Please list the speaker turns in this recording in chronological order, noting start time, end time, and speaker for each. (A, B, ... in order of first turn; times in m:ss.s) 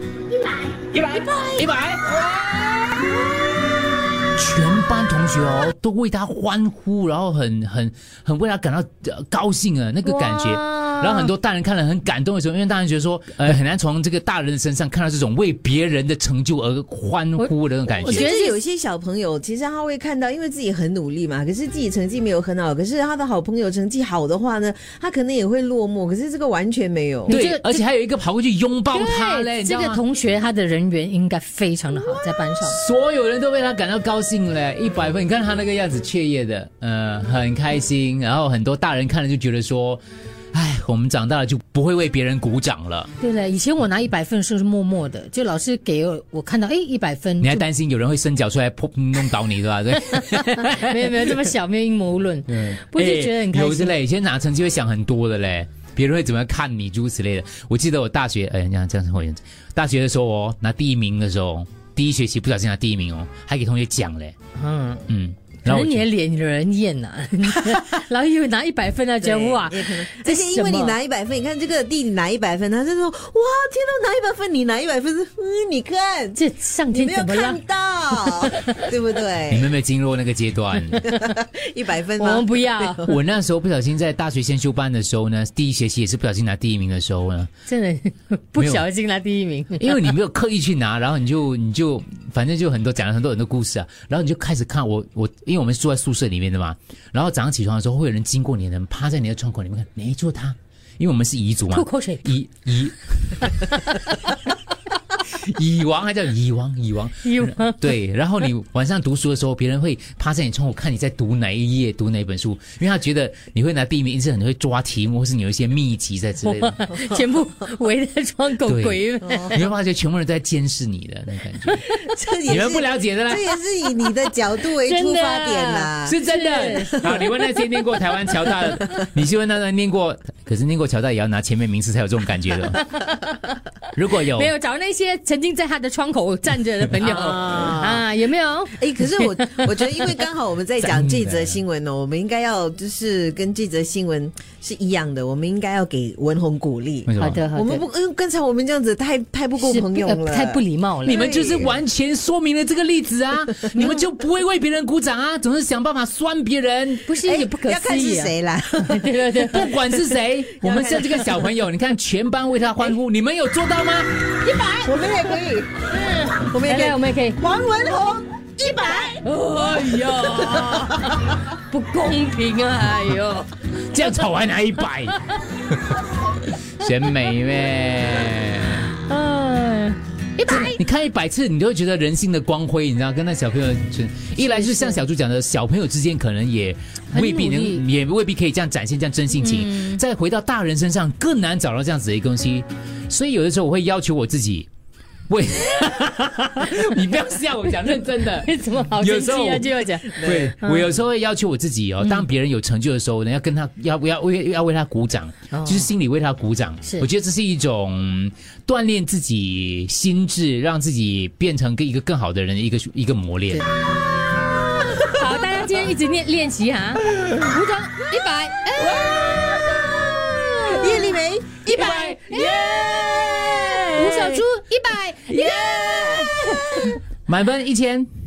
0:01.3-0:02.2 A
0:04.3-0:18.3 A
0:10.1-0:11.3 B
0:18.0-0:18.6 B
0:18.1-0:27.4 C
0:27.3-0:27.8 B
0:27.3-0:30.0 A
0:28.9-0:32.8 B
0:32.6-0:40.0 A
0:40.5-0:43.1 A
0:43.2-0:47.6 B
0:47.4-0:51.5 A
0:50.0-0:54.0 B
0:52.5-1:04.4 A
1:04.6-1:05.0 B
1:05.1-1:06.1 A
1:05.6-1:11.0 B
1:09.2-1:16.4 C
1:16.4-1:17.6 B
1:16.9-1:19.7 C
1:18.2-1:18.8 B
1:19.5-1:21.1 A
1:21.0-1:23.1 C
1:22.2-1:23.1 B
1:23.0-1:27.5 A
1:27.7-1:30.1 B
1:28.6-1:28.8 A
1:29.8-1:44.4 A
1:41.7-1:42.3 B
1:45.3-1:57.0 A
1:47.2-1:47.8 B
1:56.4-1:59.6 B
1:58.6-2:01.9 A
2:01.8-2:07.4 C
2:02.5-2:03.5 A
2:04.7-2:07.5 B
2:06.1-2:13.1 A
2:13.9-2:14.5 A
2:14.3-2:19.3 B
2:17.0-2:18.1 C
2:18.8-2:31.8 C
2:20.8-2:21.6 A
2:27.1-2:27.4 A
2:27.2-2:27.8 B
2:29.6-2:31.3 B
2:31.0-2:37.1 A
2:33.7-2:34.0 B
2:37.1-2:39.8 B
2:37.2-2:39.2 C
2:39.4-2:44.2 A
2:40.5-2:41.5 C
2:44.4-2:44.9 B
2:44.7-2:45.9 C
2:45.8-2:47.4 B
2:46.4-2:49.3 C
2:49.1-2:53.5 B
2:50.1-2:51.1 C
2:53.8-2:56.0 A
2:56.8-2:58.9 A
2:59.0-3:00.8 B
3:00.5-3:14.7 A
3:04.4-3:05.0 B
3:07.1-3:07.8 B
3:09.4-3:10.0 B
3:15.3-3:33.6 A
3:18.3-3:20.9 B
3:20.2-3:20.5 C
3:25.5-3:25.9 B
3:34.6-3:41.2 B
3:40.6-3:44.4 C
3:41.7-3:47.0 B
3:45.3-3:46.6 C
3:47.3-3:48.1 A